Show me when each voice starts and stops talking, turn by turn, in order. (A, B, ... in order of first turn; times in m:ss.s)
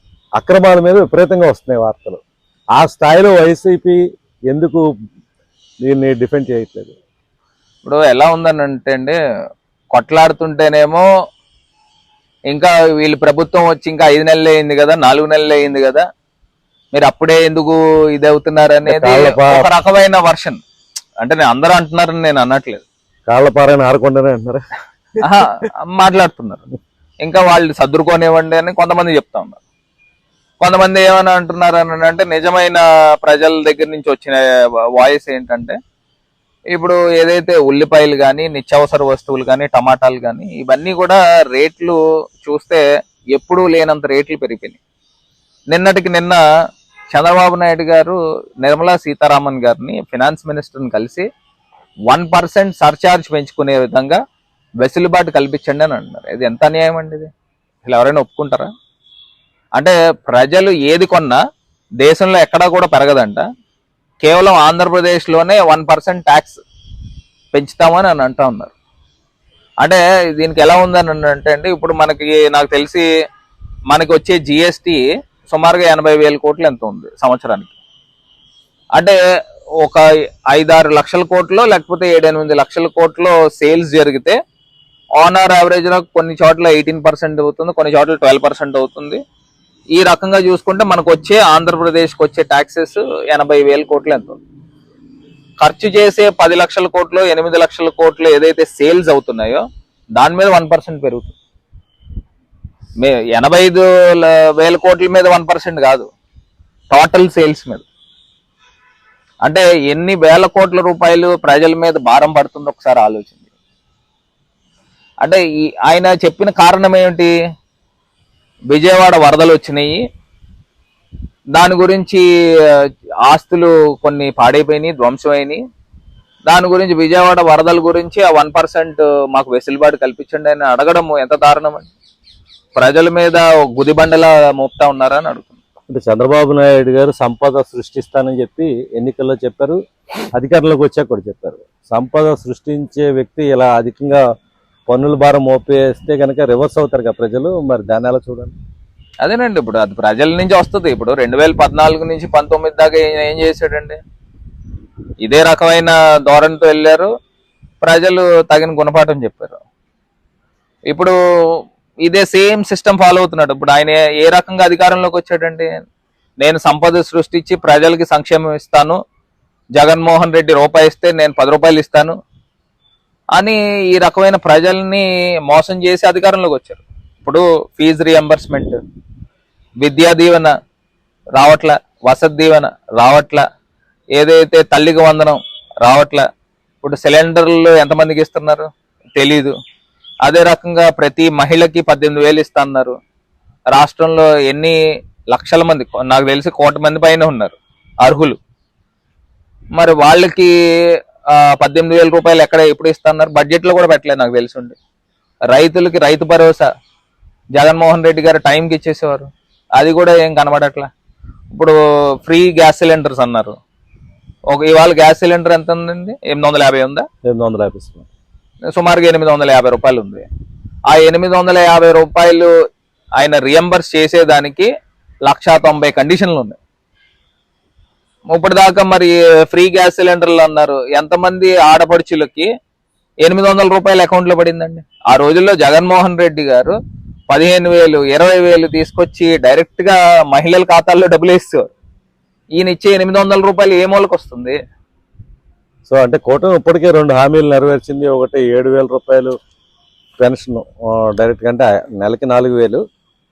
0:00.4-0:02.2 A
0:02.8-0:04.0 A
0:04.5-0:04.8 A
0:05.8-0:06.9 A
0:07.8-0:09.2 B
0:09.9-0:11.1 B
0:12.5-0:16.0 B
0:16.9-0:20.6 B
0:18.9-0:19.6 A
0:21.2-0:22.8 B
0:23.3-0:24.6 A
0:25.2-0:26.6 B
0:27.2-0:29.6 B
0:30.6-0:34.4 B
0:34.9-0:35.8 B
0:36.7-0:44.8 B
0:45.7-0:46.4 B
0:47.1-0:51.2 B
0:52.1-0:54.2 B
0:54.8-0:57.3 B
0:57.8-0:58.7 B
0:59.8-1:01.4 B
1:02.0-1:03.4 B
1:04.2-1:06.6 B
1:07.5-1:08.7 B
1:09.8-1:13.0 B
1:13.9-1:17.7 B
1:19.8-1:24.4 B
1:25.2-1:29.2 B
1:29.9-1:34.4 B
1:35.6-1:39.6 B
1:40.2-1:41.3 B
1:43.0-1:46.1 B
1:46.9-1:47.8 B
1:49.4-1:53.4 B
1:55.2-1:57.3 B
1:58.7-2:00.0 B
2:01.5-2:05.6 B
2:06.5-2:11.9 B
2:12.8-2:15.6 B
2:15.9-2:19.8 A
2:20.3-2:24.2 A
2:24.9-2:28.5 A
2:29.2-2:34.0 B
2:35.2-2:37.1 B
2:37.8-2:39.6 B
2:40.9-2:45.8 B
2:46.4-2:49.0 B
2:49.7-2:52.2 B
2:53.3-2:58.8 B
2:59.8-3:00.5 B
3:01.3-3:03.4 B
3:04.1-3:06.2 B
3:06.8-3:09.5 B
3:10.2-3:12.9 B
3:13.7-3:14.8 B
3:15.3-3:18.4 B
3:19.7-3:24.8 B
3:25.5-3:26.7 B
3:27.5-3:30.9 B
3:31.5-3:33.5 B
3:34.5-3:37.0 B
3:37.2-3:38.0 A
3:38.7-3:40.2 B
3:40.9-3:42.5 B
3:43.2-3:44.7 B
3:45.2-3:46.6 B
3:48.3-3:52.5 B
3:53.2-3:56.7 B
3:57.3-4:01.6 B
4:02.6-4:04.6 B
4:05.8-4:09.3 A
4:10.2-4:12.8 A